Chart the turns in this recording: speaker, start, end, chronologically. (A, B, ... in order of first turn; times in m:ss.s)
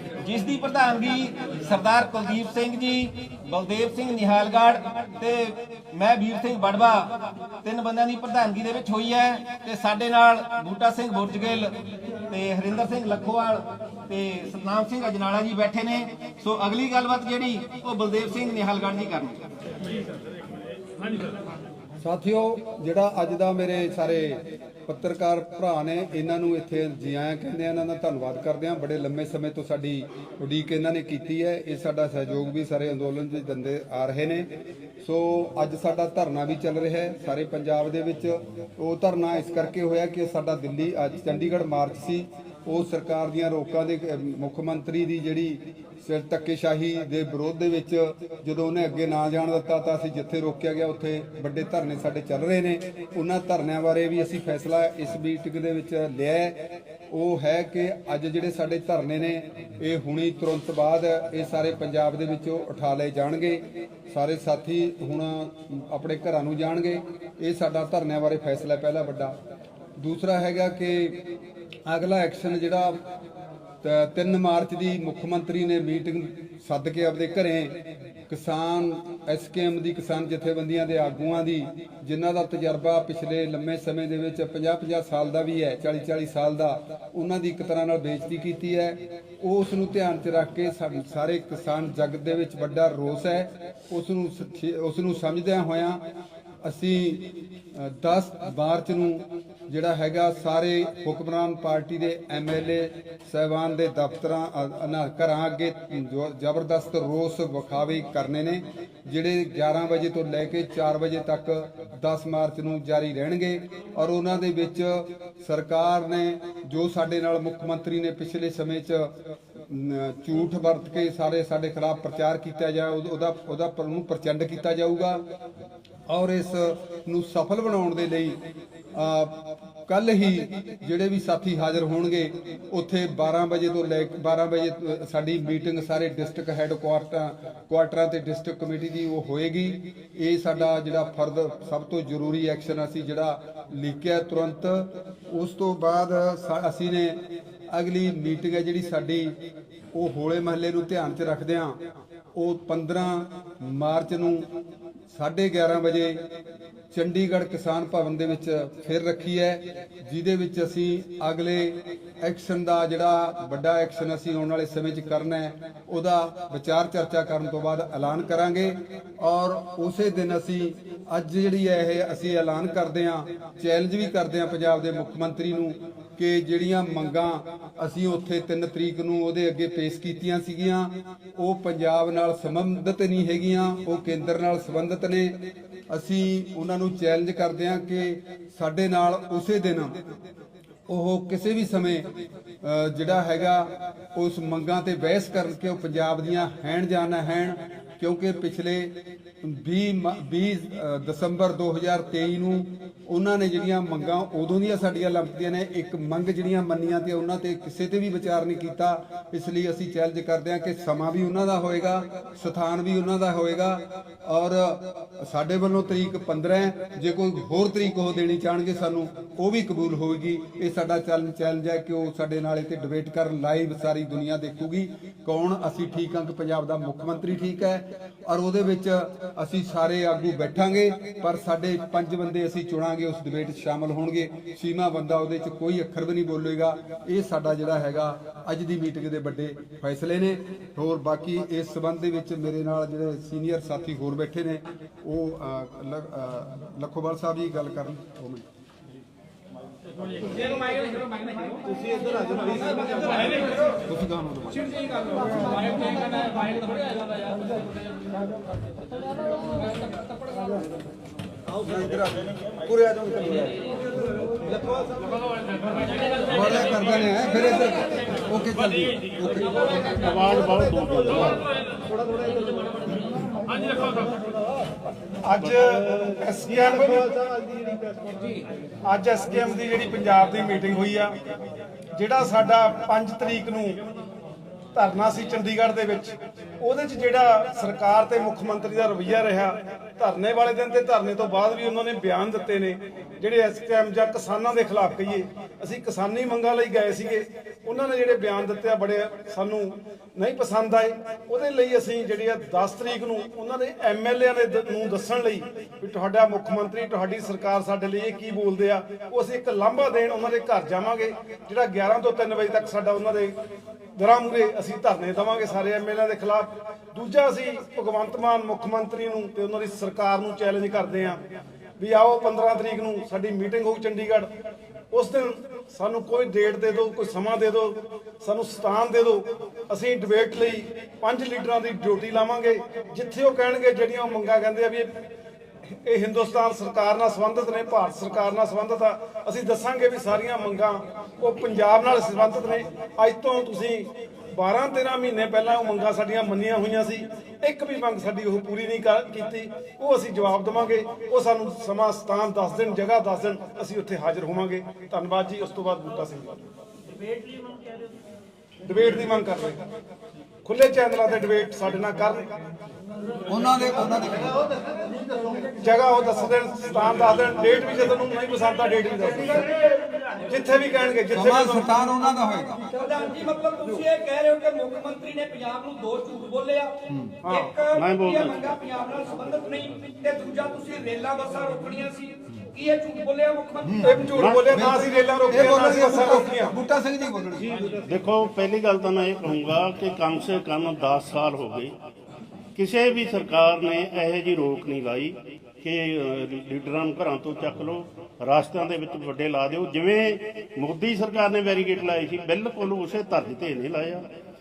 0:00.2-0:07.0 A
0:07.6-0:11.7 A
0:12.3-0:13.6 A
0:14.1-0:19.4 A
0:22.0-1:09.3 B
1:10.0-1:11.2 B
1:11.8-1:13.0 B
1:13.8-1:17.8 B
1:18.3-1:36.0 B
1:36.6-1:59.1 B
1:59.7-2:05.2 B
2:06.1-2:08.4 B
2:08.9-2:27.2 B
2:27.7-2:29.4 B
2:29.9-2:31.8 B
2:32.3-2:34.4 B
2:35.1-2:36.2 B
2:36.9-3:05.4 B
3:05.9-3:10.0 B
3:10.9-3:12.1 B
3:12.6-4:08.4 B
4:10.4-4:13.6 C
4:13.8-4:14.6 B
4:15.8-4:16.4 C
4:21.6-4:23.6 B
4:26.3-4:29.6 B
4:29.8-4:31.4 D
4:35.2-4:37.2 E
4:38.8-4:41.1 E
4:41.9-4:43.8 E
4:44.7-5:13.3 E
5:13.9-5:21.2 E
5:21.8-5:24.3 E
5:24.9-5:34.9 E
5:35.8-5:56.4 E
5:58.6-5:59.6 E
6:00.4-6:02.4 E
6:03.3-6:04.4 B
6:05.6-6:09.6 E
6:10.2-6:11.7 E
6:11.1-6:12.6 B
6:12.6-6:24.3 C
6:17.2-6:17.6 E
6:17.7-6:18.5 D
6:23.8-6:26.5 E
6:24.1-6:24.5 D
6:24.5-6:27.6 B
6:27.6-6:31.7 D
6:32.5-6:44.0 D